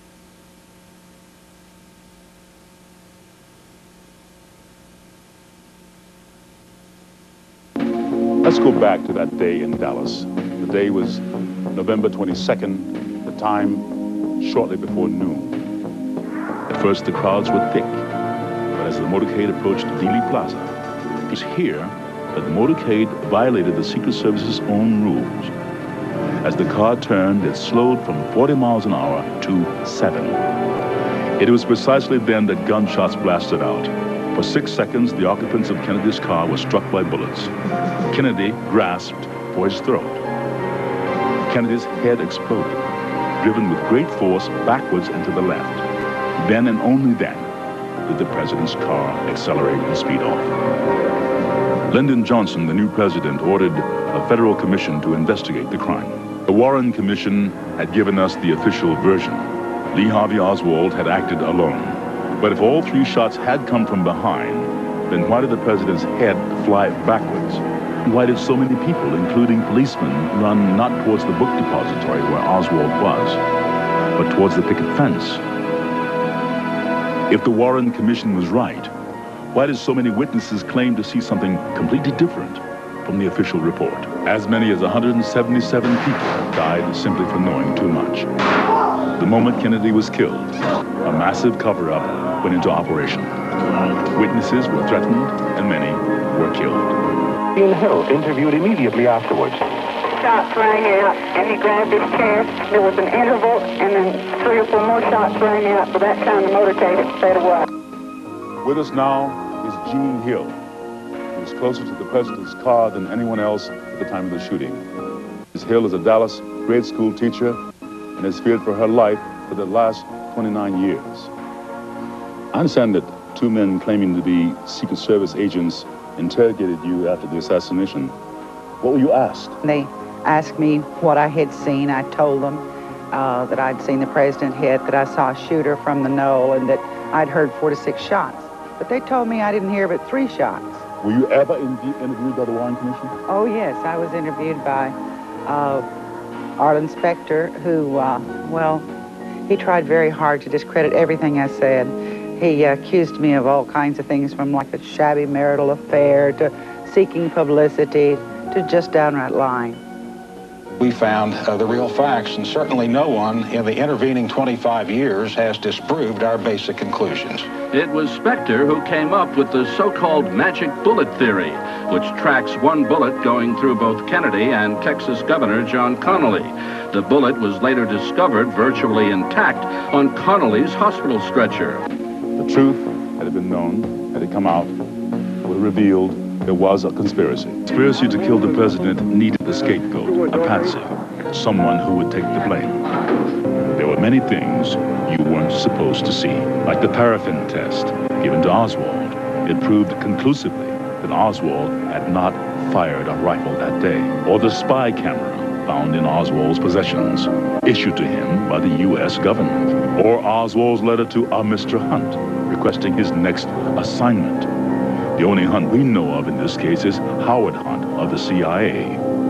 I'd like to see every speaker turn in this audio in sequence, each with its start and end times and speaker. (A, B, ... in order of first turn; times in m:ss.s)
0:08.4-0:15.6 A
0:16.7-0:18.0 A
0:18.7-0:20.7 A
0:21.3-0:25.5 A
0:26.4-0:30.4 A
0:31.4-0:37.5 A
0:38.1-0:40.2 A
0:41.4-0:42.8 A
0:43.4-0:45.8 A
0:46.4-0:47.5 A
0:48.0-0:50.6 A
0:51.9-1:13.4 A
1:14.1-1:15.4 A
1:17.3-1:18.9 A
1:19.5-1:28.3 A
1:29.2-1:33.3 A
1:34.1-1:37.0 A
1:37.5-1:39.6 B
1:40.1-1:47.6 C
1:48.6-1:50.6 A
1:51.3-1:54.8 A
1:55.5-1:57.6 A
1:58.2-2:01.3 A
2:02.5-2:08.1 A
2:08.8-2:09.6 A
2:09.6-2:20.8 D
2:21.0-2:23.1 A
2:23.3-2:24.9 D
2:25.4-2:25.9 D
2:26.6-2:28.8 D
2:29.5-2:39.8 D
2:40.8-2:47.5 E
2:47.6-3:01.8 F
3:02.4-3:04.8 A
3:05.4-3:12.9 A
3:13.7-3:34.5 A
3:35.2-3:39.0 A